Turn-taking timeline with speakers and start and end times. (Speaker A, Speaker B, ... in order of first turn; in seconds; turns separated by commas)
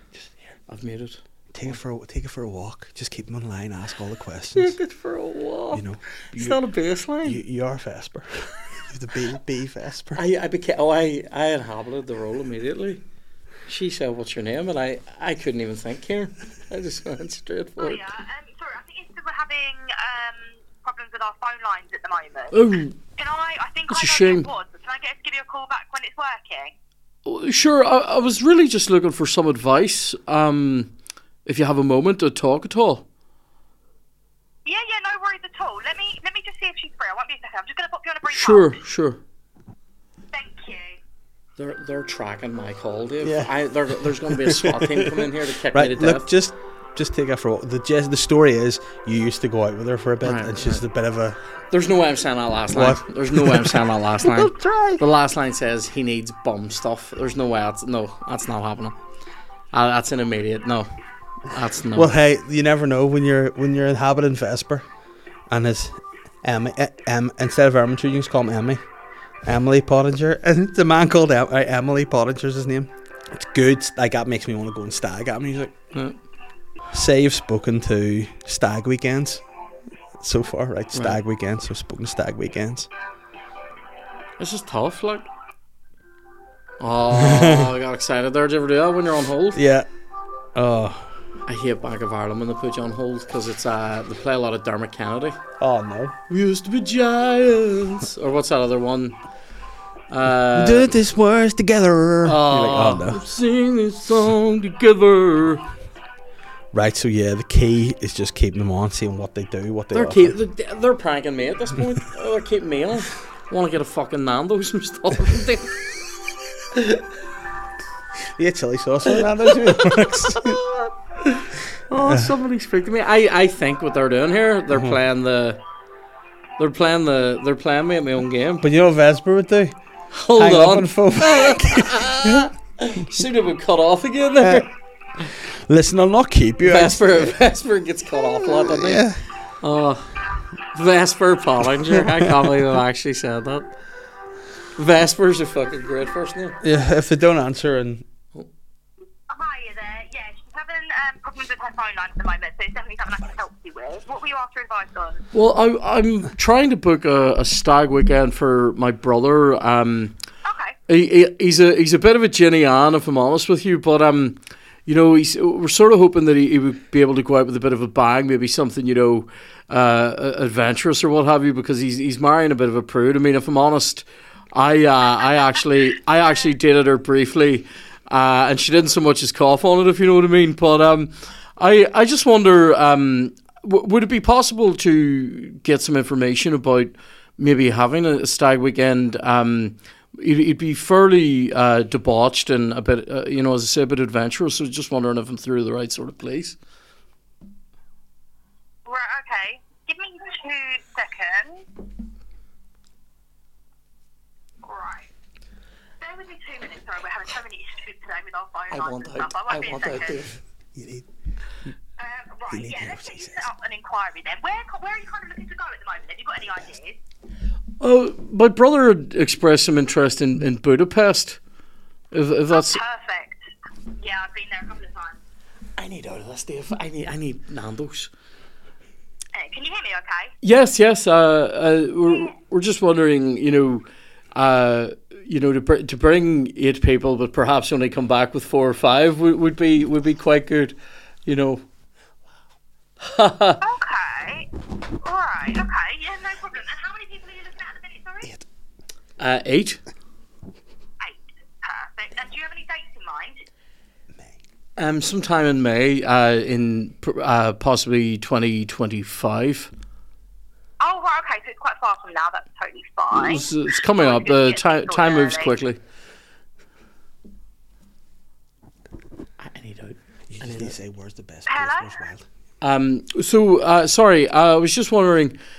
Speaker A: 0.7-1.7, Speaker B: 1.5-4.8, Speaker A: 4.5-7.4, Speaker B: 5.7-6.6, Speaker B: 7.2-10.2, Speaker A: 10.1-13.0, Speaker A: 13.7-18.0, Speaker C: 17.8-22.6, Speaker A: 22.5-23.0, Speaker C: 23.1-26.7, Speaker A: 23.9-24.5, Speaker A: 27.2-30.9, Speaker A: 31.4-33.0, Speaker C: 34.6-38.8, Speaker A: 38.2-39.2, Speaker C: 40.3-41.0, Speaker A: 41.6-46.3, Speaker B: 43.2-51.4, Speaker A: 50.2-50.8, Speaker A: 51.7-59.0, Speaker B: 52.7-55.0, Speaker A: 59.7-60.9, Speaker A: 61.5-62.1, Speaker B: 61.9-64.8, Speaker B: 65.5-68.8, Speaker B: 69.4-75.7, Speaker B: 76.9-79.4, Speaker B: 80.2-82.9, Speaker A: 80.9-81.2, Speaker A: 84.4-85.2, Speaker A: 86.8-89.6, Speaker B: 87.1-87.7, Speaker B: 89.5-89.9, Speaker B: 90.5-91.1, Speaker A: 91.5-95.4, Speaker B: 95.6-96.1, Speaker A: 96.3-99.2, Speaker A: 100.1-100.9, Speaker B: 100.5-103.2, Speaker A: 102.2-105.7, Speaker B: 106.7-110.3, Speaker A: 109.9-115.8, Speaker A: 116.7-117.0, Speaker B: 118.4-120.6, Speaker A: 119.2-125.6, Speaker B: 122.0-122.3, Speaker A: 126.6-128.6, Speaker B: 128.6-129.7, Speaker A: 130.1-134.7, Speaker B: 130.3-132.5, Speaker B: 135.4-137.3, Speaker A: 136.6-139.1, Speaker B: 138.3-139.2, Speaker A: 139.6-140.1, Speaker A: 140.7-143.7, Speaker B: 142.0-142.2, Speaker A: 144.8-146.6, Speaker B: 146.6-148.0, Speaker C: 149.3-155.2, Speaker A: 155.3-160.2, Speaker C: 160.4-160.8, Speaker A: 160.9-196.6, Speaker C: 198.8-201.6, Speaker C: 204.6-205.1, Speaker C: 206.0-210.2, Speaker A: 208.7-210.4, Speaker B: 210.7-211.1, Speaker C: 212.0-217.0, Speaker B: 212.5-213.5, Speaker A: 217.8-221.4, Speaker A: 222.1-222.8, Speaker C: 222.5-223.4, Speaker C: 224.0-225.2, Speaker A: 225.8-228.1, Speaker C: 229.3-230.3, Speaker A: 230.4-241.6, Speaker A: 243.0-243.6, Speaker C: 243.6-244.5, Speaker C: 245.0-248.3, Speaker A: 249.2-249.8, Speaker C: 251.0-253.3, Speaker A: 254.8-259.7, Speaker C: 260.8-265.5, Speaker A: 263.1-265.8, Speaker A: 269.4-270.7, Speaker B: 270.3-272.2, Speaker C: 271.5-271.9, Speaker A: 272.6-275.4